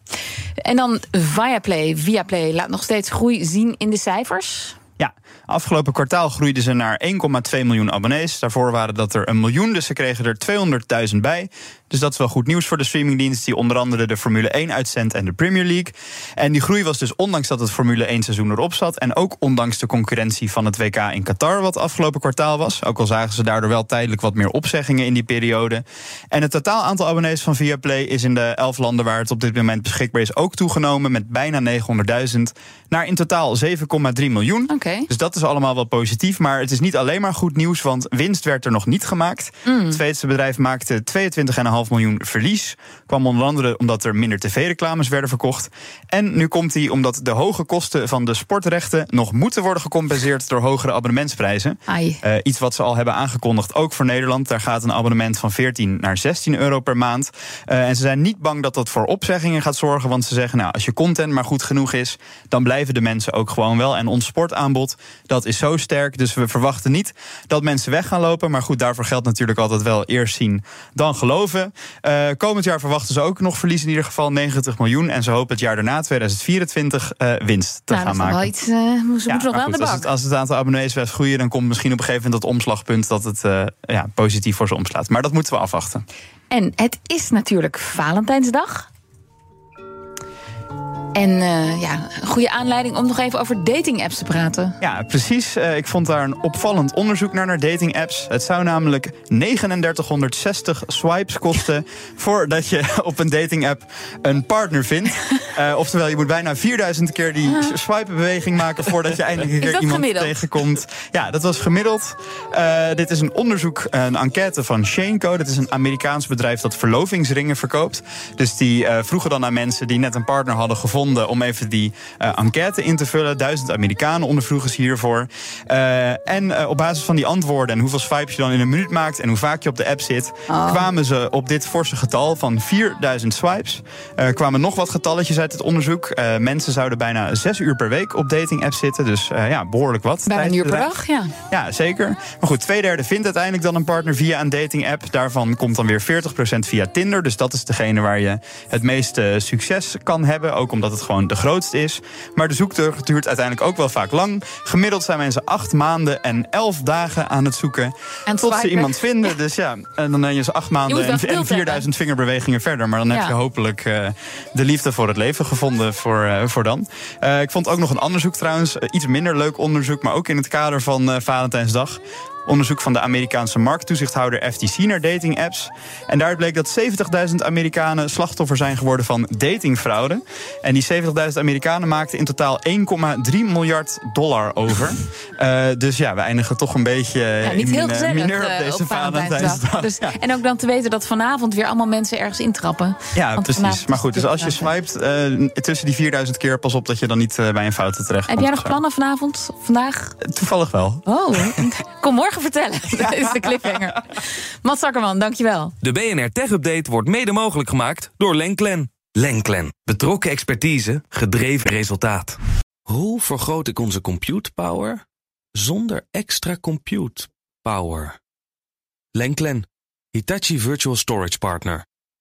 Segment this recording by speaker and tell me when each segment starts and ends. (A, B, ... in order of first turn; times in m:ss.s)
0:00.6-0:04.8 A
0:05.0-1:18.5 B
0:34.7-0:35.1 A
0:39.7-0:40.0 A
0:51.9-0:52.2 A
1:17.9-1:20.1 A
1:19.3-1:26.0 B
1:26.5-1:28.9 A
1:31.2-1:34.8 A
1:34.8-2:20.9 B
1:49.6-1:50.4 A
2:10.5-2:10.9 A
2:20.3-2:21.3 A
2:21.5-3:10.1 B
2:38.3-2:39.0 A
2:40.9-2:41.8 A
3:07.4-3:14.7 A
3:13.2-3:18.8 B
3:18.3-3:20.2 A
3:20.2-3:21.1 B
3:21.1-3:25.8 A
3:25.8-3:35.0 C
3:35.6-3:38.2 C
3:39.2-3:41.8 C